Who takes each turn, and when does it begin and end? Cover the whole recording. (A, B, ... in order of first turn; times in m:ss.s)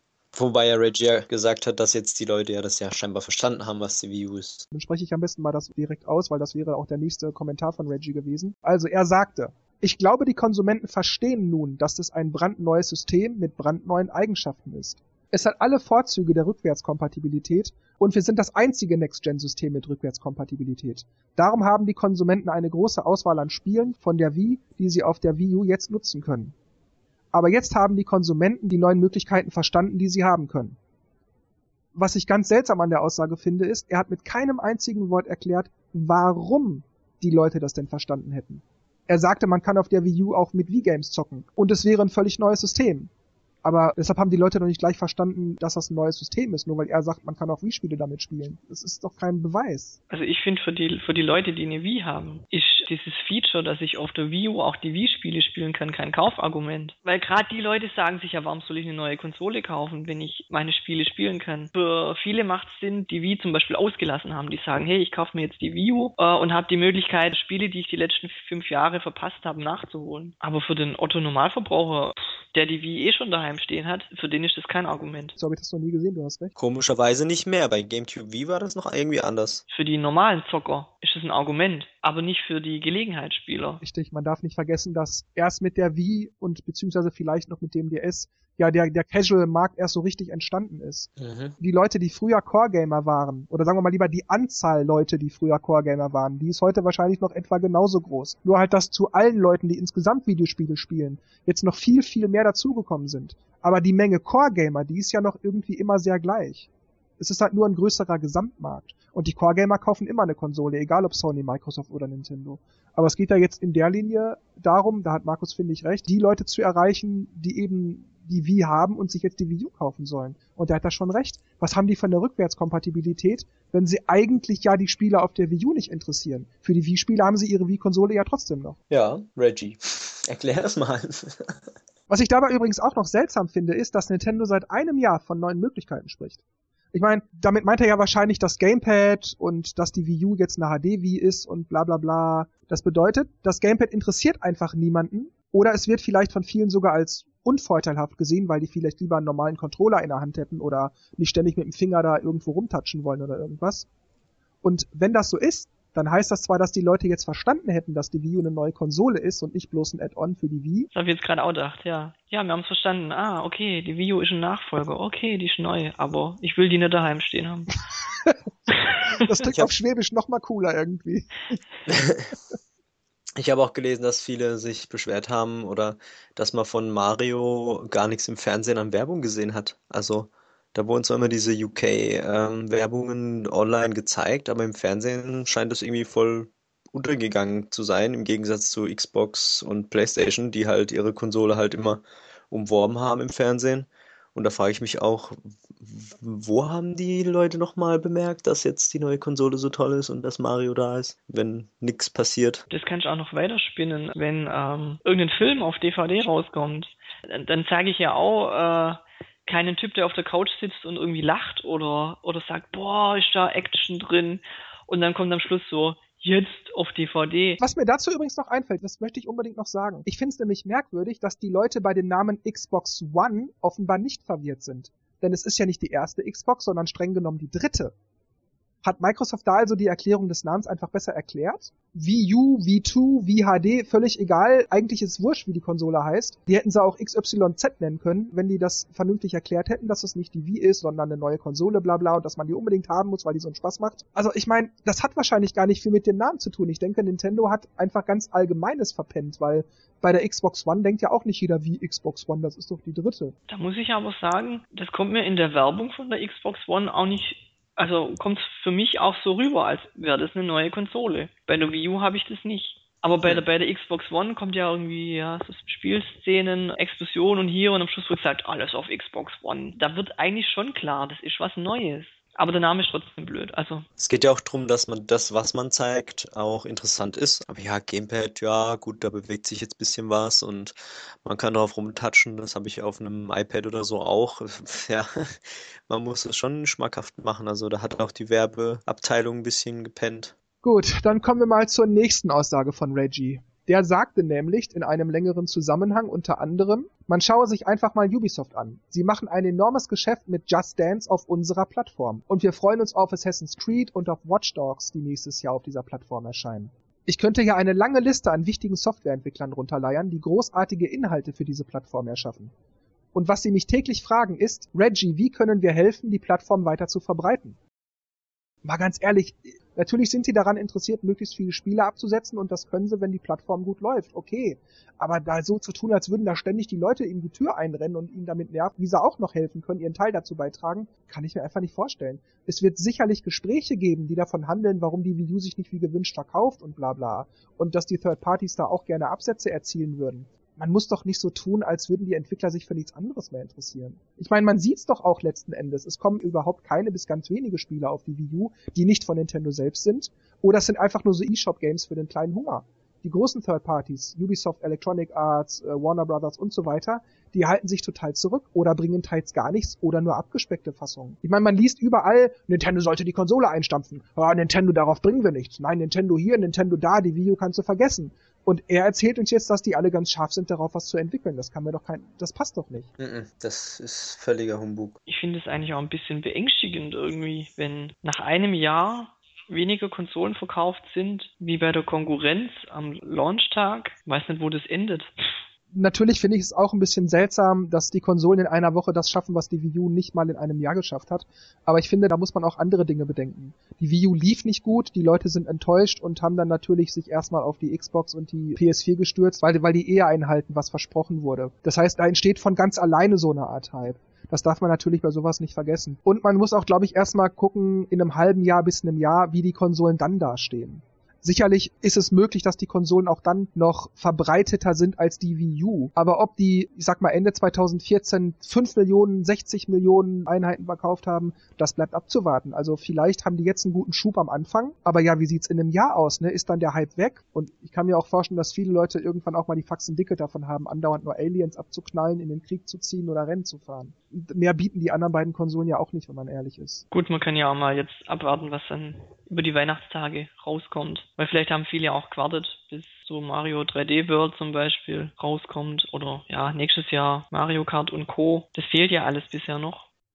0:00.3-0:04.7 A
0:04.7-0:26.5 B
0:27.3-0:30.8 B
0:31.9-0:43.1 B
0:43.6-0:50.0 B
0:50.1-1:15.4 C
1:15.4-1:16.5 B
1:16.6-1:19.6 A
1:19.7-1:23.8 C
1:23.8-2:08.8 B
1:31.2-1:31.5 A
2:08.9-2:11.6 A
2:12.1-2:16.4 B
2:16.9-2:33.8 B
2:34.6-2:40.9 B
2:40.9-2:47.7 C
2:49.2-2:51.6 B
2:51.9-2:52.3 A
2:53.4-3:22.6 A
3:22.7-3:37.6 C
3:37.6-3:47.9 B
3:48.8-4:13.4 B
4:13.5-4:33.9 C
4:34.0-4:50.3 A
4:50.6-5:12.5 B
5:13.1-5:17.6 B
5:18.6-6:12.9 B
6:13.0-6:15.0 A
6:15.1-6:25.1 C
6:25.7-7:16.8 B
7:16.9-7:29.9 C